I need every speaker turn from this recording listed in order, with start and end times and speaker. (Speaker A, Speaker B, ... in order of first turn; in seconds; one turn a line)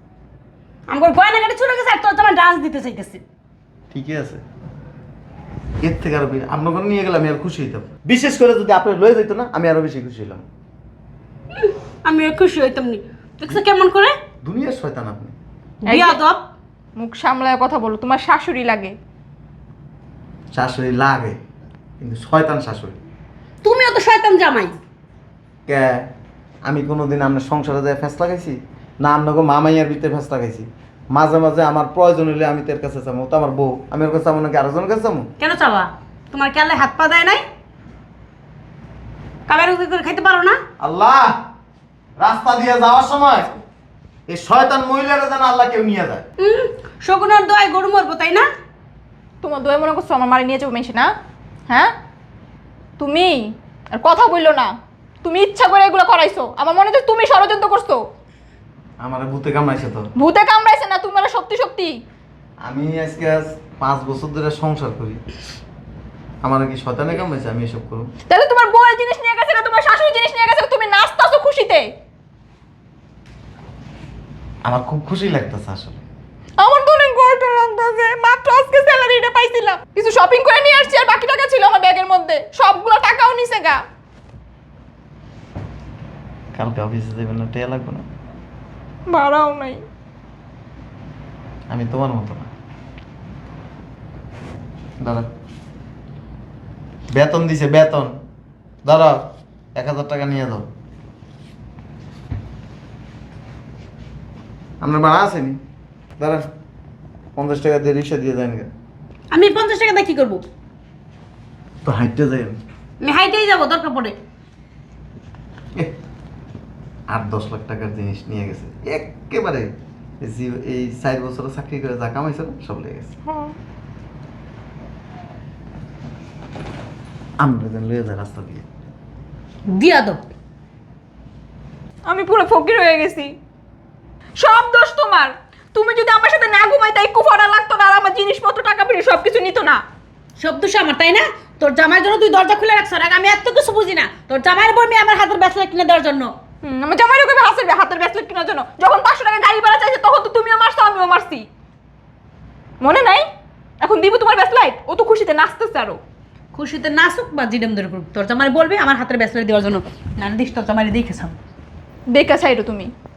Speaker A: 0.9-3.2
Speaker B: 3.9-4.4
Speaker B: 5.8-10.4
Speaker A: 11.6-14.2
Speaker B: 14.4-15.3
Speaker A: 15.8-16.4
Speaker C: 15.9-16.2
Speaker C: 17.0-18.9
Speaker B: 20.5-21.4
Speaker B: 22.0-23.0
Speaker A: 23.6-24.8
Speaker B: 25.7-26.1
Speaker B: 26.6-35.3
Speaker A: 35.4-37.4
Speaker A: 39.5-40.6
Speaker B: 40.8-41.3
Speaker B: 42.2-43.6
Speaker B: 44.3-46.2
Speaker A: 46.4-48.5
Speaker C: 49.4-51.1
Speaker C: 53.0-53.4
Speaker C: 53.9-54.7
Speaker C: 55.2-58.0
Speaker B: 59.0-60.1
Speaker C: 60.2-61.9
Speaker B: 62.7-65.2
Speaker B: 66.4-68.1
Speaker C: 68.3-71.9
Speaker B: 74.7-76.0
Speaker C: 76.6-83.8
Speaker B: 86.5-88.0
Speaker C: 89.1-89.8
Speaker B: 91.7-92.5
Speaker B: 95.0-95.3
Speaker B: 97.1-98.2
Speaker B: 98.8-99.2
Speaker B: 99.8-100.7
Speaker B: 104.8-105.6
Speaker B: 106.2-106.4
Speaker B: 107.4-108.7
Speaker A: 109.3-110.4
Speaker B: 111.8-112.6
Speaker A: 113.0-114.2
Speaker B: 117.1-123.1
Speaker C: 123.3-123.6
Speaker B: 127.4-128.7
Speaker A: 129.7-130.2
Speaker C: 132.1-133.3
Speaker C: 134.4-139.8
Speaker A: 140.4-146.3
Speaker C: 146.6-151.5
Speaker C: 152.8-153.2
Speaker C: 153.8-156.0
Speaker A: 156.5-161.4
Speaker C: 162.1-162.9